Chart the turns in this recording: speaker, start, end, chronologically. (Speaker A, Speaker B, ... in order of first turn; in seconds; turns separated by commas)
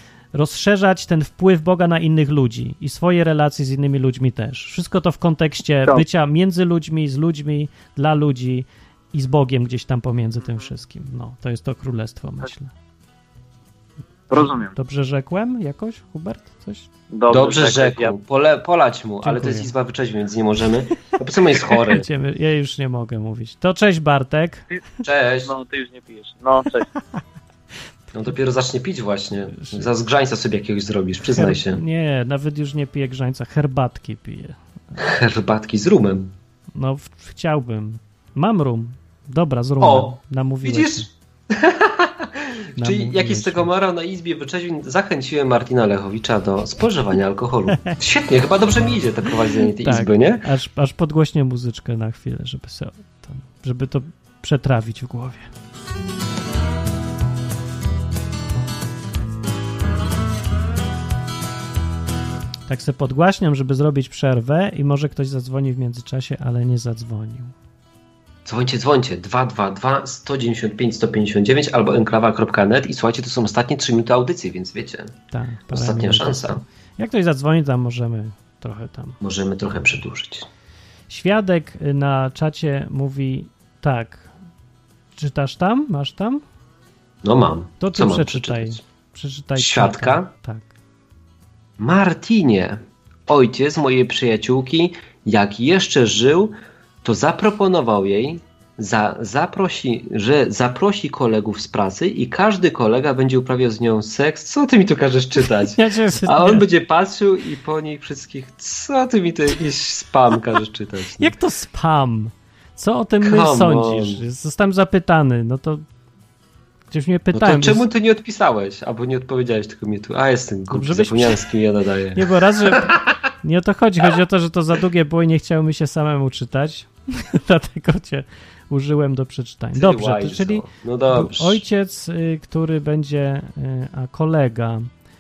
Speaker A: 0.3-12.7, Speaker B: 10.4-10.7, Speaker B: 14.3-14.7, Speaker A: 14.3-16.9, Speaker B: 17.1-18.1, Speaker C: 17.3-22.1, Speaker A: 19.2-19.7, Speaker A: 21.7-24.6, Speaker C: 25.0-25.5, Speaker B: 25.4-26.9, Speaker C: 28.1-31.8, Speaker A: 29.6-29.9, Speaker A: 31.3-34.6, Speaker C: 35.0-36.3, Speaker A: 36.7-41.1, Speaker C: 39.8-50.4, Speaker A: 42.8-43.7, Speaker A: 49.8-55.5, Speaker A: 62.7-67.5, Speaker C: 68.5-75.1, Speaker A: 75.3-79.2, Speaker C: 75.7-76.6, Speaker C: 79.2-80.5, Speaker A: 81.1-84.3, Speaker A: 85.2-86.4, Speaker C: 87.2-88.8, Speaker A: 87.8-90.7, Speaker C: 89.5-90.3, Speaker C: 91.8-111.3, Speaker A: 105.7-106.7, Speaker A: 111.2-115.8, Speaker C: 113.2-114.2, Speaker A: 116.9-117.8, Speaker C: 117.3-123.1, Speaker A: 120.7-121.5, Speaker A: 122.1-134.9, Speaker C: 129.7-131.6